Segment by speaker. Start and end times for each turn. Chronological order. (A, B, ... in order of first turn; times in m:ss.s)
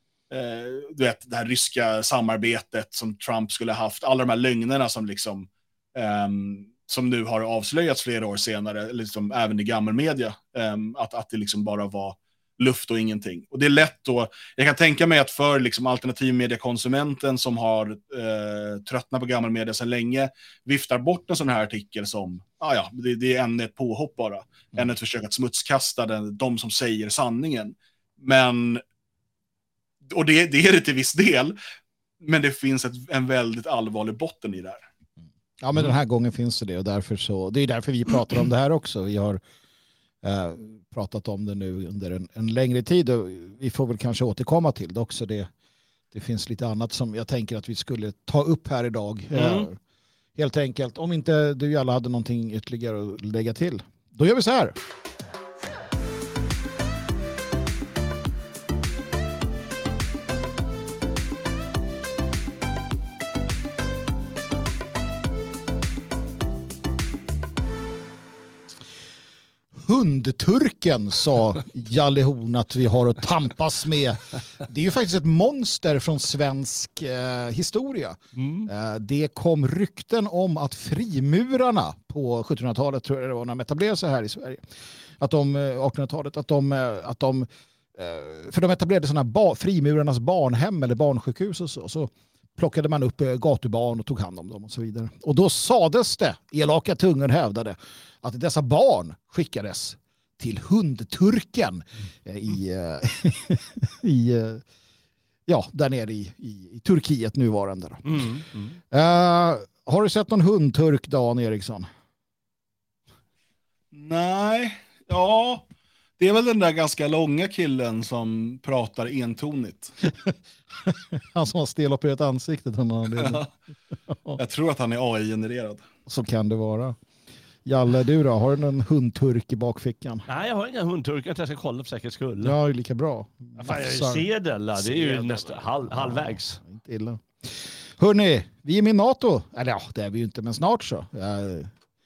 0:00.3-0:28.8 A
0:30.0-0:31.6 A
0:32.2-0:34.8 A
0:35.6-0:39.4 B
0:40.2-0:45.5 B
0:46.1-0:49.8 B
0:49.3-0:49.7 C
0:50.4-0:54.7 B
1:09.8-1:24.6 B
1:18.4-1:18.7 C
1:25.2-1:44.6 B
1:45.5-1:48.2 B
1:48.0-1:48.8 C
1:48.9-1:51.9 B
1:53.9-1:55.6 A
1:56.2-2:00.0 A
2:00.8-2:03.4 B
2:03.2-2:03.5 A
2:04.4-2:05.8 A
2:06.1-2:07.0 B
2:07.6-2:10.2 B
2:10.3-2:12.6 C
2:12.4-2:21.7 B
2:13.6-2:16.6 C